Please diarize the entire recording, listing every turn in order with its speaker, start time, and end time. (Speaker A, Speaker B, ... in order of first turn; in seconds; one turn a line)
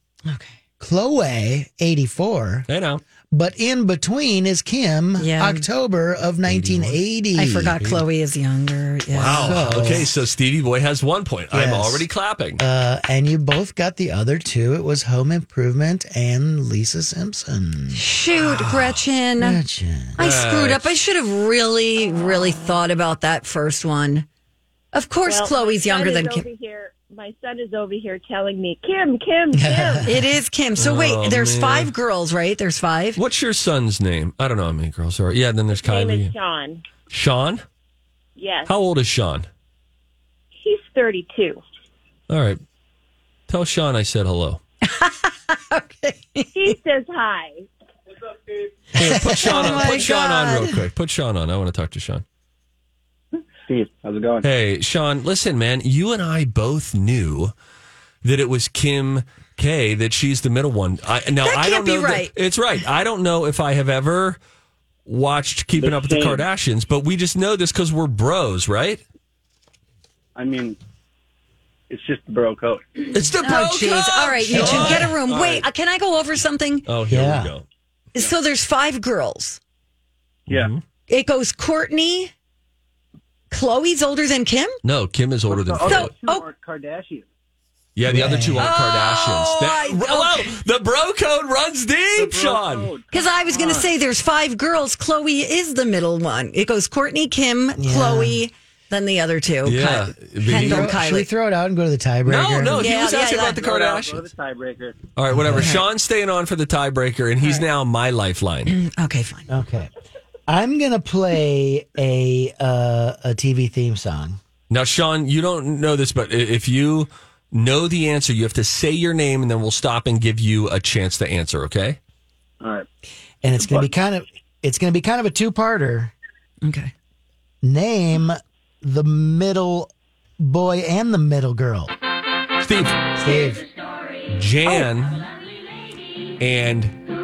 Speaker A: 0.3-0.6
Speaker B: 0.8-2.7
Speaker C: 2.7-3.0
Speaker B: 3.3-8.0
Speaker A: 5.2-5.6
Speaker C: 6.5-7.0
Speaker A: 7.3-9.6
Speaker C: 9.1-12.6
Speaker B: 9.4-10.1
Speaker B: 11.5-12.1
Speaker B: 12.6-18.0
Speaker A: 17.9-19.6
Speaker C: 18.4-19.0
Speaker B: 19.4-20.2
Speaker A: 20.1-24.3
Speaker C: 20.2-20.9
Speaker A: 24.9-26.4
Speaker D: 25.2-30.0
Speaker B: 29.5-30.3
Speaker A: 30.0-33.2
Speaker C: 30.8-31.9
Speaker C: 33.1-36.3
Speaker D: 35.7-36.8
Speaker C: 37.1-37.6
Speaker D: 38.4-38.7
Speaker C: 38.6-39.5
Speaker D: 40.6-41.6
Speaker C: 42.3-42.6
Speaker C: 43.5-44.6
Speaker A: 44.8-46.7
Speaker D: 46.5-47.7
Speaker C: 48.9-52.2
Speaker A: 49.1-50.8
Speaker E: 53.7-54.5
Speaker C: 54.4-57.5
Speaker C: 58.2-64.4
Speaker A: 61.4-62.3
Speaker C: 65.0-69.0
Speaker E: 65.8-66.4
Speaker E: 70.3-70.8
Speaker E: 71.9-72.8
Speaker C: 73.1-75.6
Speaker A: 73.4-76.8
Speaker C: 76.8-77.6
Speaker B: 77.1-77.5
Speaker A: 78.1-79.6
Speaker C: 80.5-80.8
Speaker A: 81.1-82.3
Speaker A: 83.5-84.8
Speaker C: 84.8-86.1
Speaker E: 85.5-87.3
Speaker A: 85.8-86.4
Speaker C: 88.0-92.9
Speaker B: 88.1-88.7
Speaker A: 88.6-90.5
Speaker E: 92.1-93.8
Speaker A: 93.1-101.3
Speaker B: 97.8-98.4
Speaker C: 99.6-100.9
Speaker B: 100.5-102.8
Speaker C: 102.2-104.3
Speaker A: 102.8-103.6
Speaker E: 103.5-105.0
Speaker C: 105.1-108.7
Speaker B: 105.3-105.8
Speaker A: 105.5-105.8
Speaker A: 108.7-109.5
Speaker B: 109.5-109.9
Speaker B: 110.5-114.4
Speaker C: 114.7-122.0
Speaker E: 122.6-122.8
Speaker B: 123.4-126.1
Speaker A: 126.6-126.9
Speaker B: 127.6-131.9
Speaker C: 132.6-133.1
Speaker B: 133.2-133.6
Speaker C: 134.3-135.2
Speaker C: 136.4-137.0